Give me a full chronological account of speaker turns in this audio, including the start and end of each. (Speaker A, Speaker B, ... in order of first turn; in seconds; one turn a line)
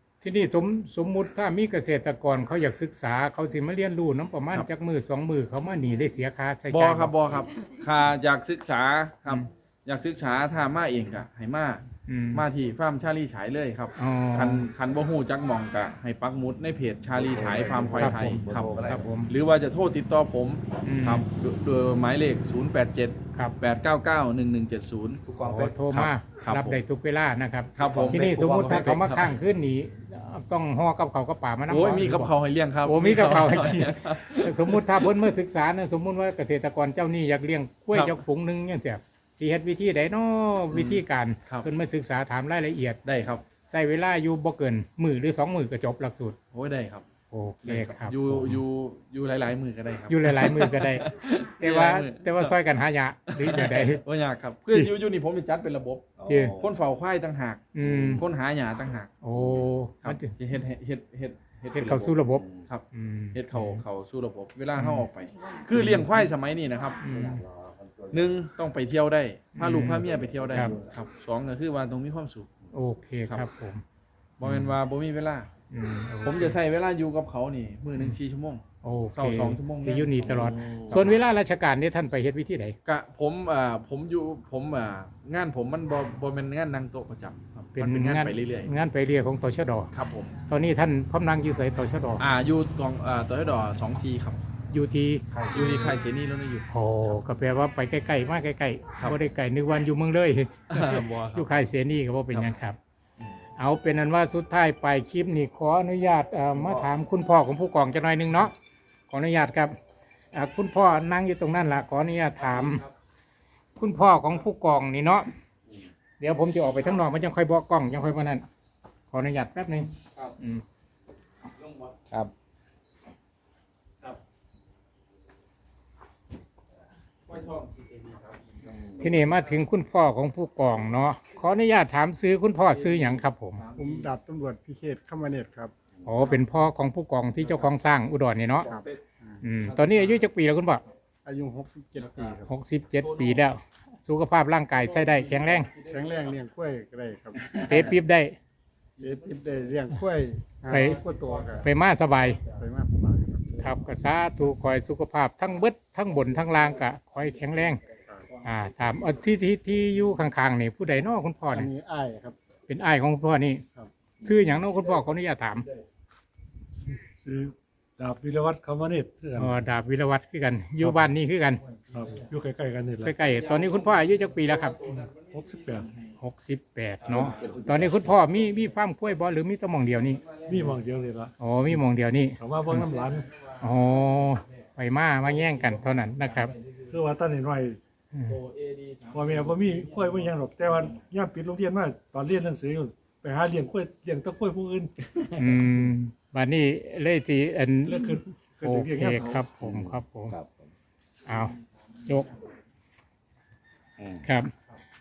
Speaker A: 0.2-7.1
Speaker B: 6.7-25.2
Speaker A: 12.1-12.5
Speaker A: 14.0-14.7
Speaker C: 17.2-19.1
Speaker A: 17.9-19.3
Speaker A: 20.8-21.2
Speaker C: 25.3-25.8
Speaker A: 25.4-32.3
Speaker B: 25.9-26.8
Speaker B: 27.8-29.3
Speaker C: 27.8-29.0
Speaker B: 31.7-35.1
Speaker A: 32.8-43.0
Speaker B: 37.9-38.2
Speaker B: 40.7-41.7
Speaker B: 43.0-43.5
Speaker A: 43.7-46.4
Speaker B: 46.5-47.1
Speaker A: 47.3-48.6
Speaker B: 47.6-52.6
Speaker A: 50.1-54.0
Speaker B: 53.3-59.2
Speaker C: 56.2-56.8
Speaker A: 56.3-56.6
Speaker A: 57.7-58.3
Speaker C: 57.8-58.3
Speaker A: 59.2-60.4
Speaker B: 60.0-67.0
Speaker A: 61.7-63.8
Speaker C: 62.4-62.7
Speaker A: 64.7-65.1
Speaker A: 65.7-66.3
Speaker A: 67.0-67.4
Speaker C: 67.0-68.5
Speaker B: 68.1-72.5
Speaker A: 69.6-70.7
Speaker C: 69.8-71.0
Speaker A: 72.7-73.8
Speaker B: 74.4-75.5
Speaker A: 74.4-74.8
Speaker A: 75.7-76.6
Speaker B: 76.2-81.2
Speaker A: 78.8-82.8
Speaker B: 82.8-88.7
Speaker A: 87.7-89.9
Speaker B: 89.9-90.4
Speaker A: 90.5-92.2
Speaker B: 92.2-94.4
Speaker A: 94.7-95.3
Speaker C: 95.3-95.9
Speaker B: 95.5-97.2
Speaker A: 96.7-102.8
Speaker B: 100.7-101.7
Speaker B: 102.3-102.6
Speaker A: 103.6-108.5
Speaker A: 109.1-109.8
Speaker A: 110.3-112.8
Speaker B: 112.4-112.9
Speaker A: 113.8-115.3
Speaker A: 116.2-118.4
Speaker A: 119.1-120.6
Speaker B: 121.6-121.9
Speaker B: 127.3-129.6
Speaker C: 128.7-129.2
Speaker A: 129.0-133.6
Speaker B: 132.6-134.1
Speaker D: 133.8-135.7
Speaker A: 136.1-138.7
Speaker B: 136.2-136.5
Speaker B: 137.4-137.7
Speaker D: 138.7-139.4
Speaker B: 138.7-138.9
Speaker A: 139.4-140.8
Speaker B: 139.6-140.3
Speaker D: 141.2-142.5
Speaker B: 142.0-142.4
Speaker A: 142.5-145.7
Speaker B: 143.0-143.5
Speaker B: 144.7-146.5
Speaker D: 145.9-147.9
Speaker B: 147.4-148.0
Speaker A: 147.6-148.4
Speaker B: 149.0-150.0
Speaker D: 149.0-151.7
Speaker B: 150.6-152.6
Speaker A: 150.7-151.0
Speaker A: 151.6-152.4
Speaker D: 152.6-153.8
Speaker A: 153.6-157.8
Speaker B: 158.3-159.2
Speaker A: 158.4-161.7
Speaker D: 161.5-162.4
Speaker A: 162.7-163.6
Speaker A: 164.2-165.7
Speaker B: 164.5-165.9
Speaker E: 167.2-169.6
Speaker A: 169.4-171.6
Speaker E: 170.8-171.1
Speaker B: 171.6-172.4
Speaker E: 171.9-173.2
Speaker A: 173.0-175.0
Speaker B: 173.1-176.2
Speaker E: 175.3-175.9
Speaker A: 176.2-180.2
Speaker B: 177.0-179.2
Speaker C: 177.0-178.2
Speaker B: 179.9-181.3
Speaker E: 180.5-181.3
Speaker A: 181.4-182.9
Speaker E: 182.4-183.3
Speaker B: 182.6-184.7
Speaker A: 183.6-186.5
Speaker B: 185.2-187.1
Speaker E: 186.9-187.8
Speaker B: 188.2-191.1
Speaker E: 189.1-194.9
Speaker B: 195.2-195.7
Speaker A: 195.4-200.4
Speaker E: 197.9-199.4
Speaker C: 199.6-200.7
Speaker A: 201.3-201.5
Speaker B: 201.3-202.5
Speaker C: 204.0-204.3
Speaker A: 204.2-204.5